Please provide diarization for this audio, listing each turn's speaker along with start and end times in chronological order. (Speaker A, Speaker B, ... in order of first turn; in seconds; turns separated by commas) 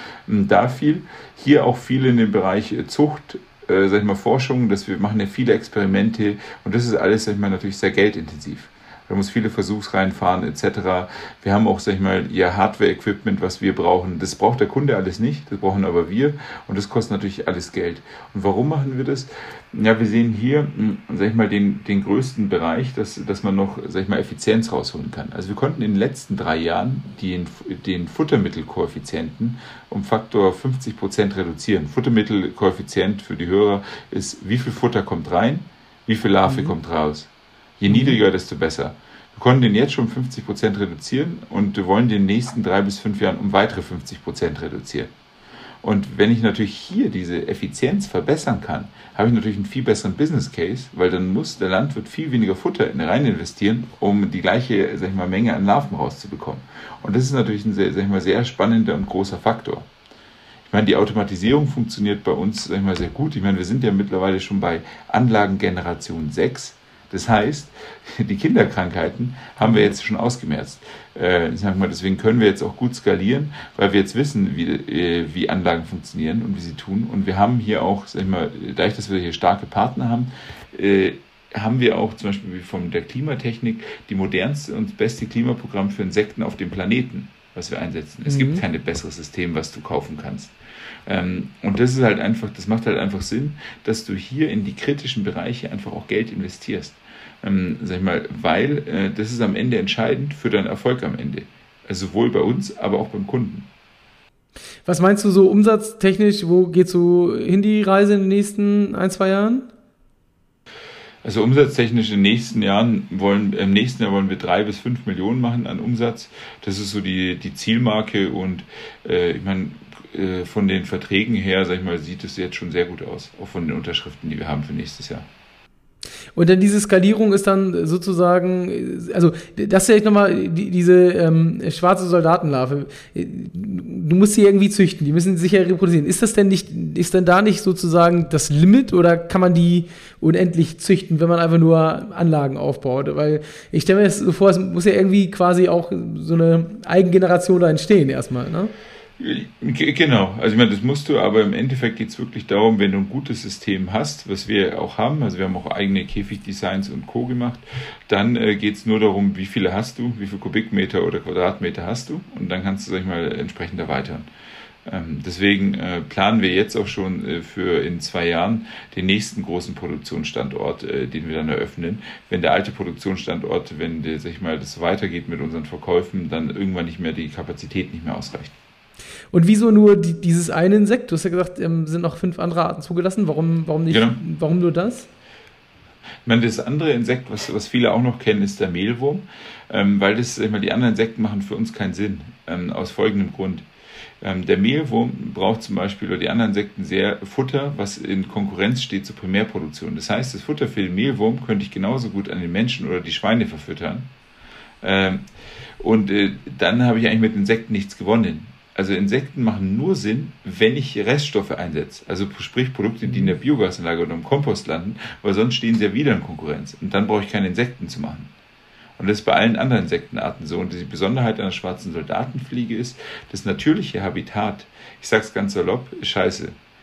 Speaker A: 0.2-37.3, Speaker B: 36.5-36.7, Speaker A: 37.8-45.1, Speaker B: 37.9-38.2, Speaker A: 45.8-59.9, Speaker A: 60.7-90.5, Speaker B: 69.6-69.8, Speaker B: 88.2-88.6, Speaker A: 91.0-103.7, Speaker B: 104.8-109.7, Speaker A: 111.2-125.3, Speaker B: 126.3-148.7, Speaker A: 149.2-164.3, Speaker A: 164.8-178.5, Speaker B: 179.3-185.1, Speaker A: 183.9-184.2, Speaker A: 186.2-193.7, Speaker A: 194.2-204.1, Speaker A: 204.8-205.2, Speaker A: 205.8-218.3, Speaker B: 213.0-213.3, Speaker A: 219.0-226.6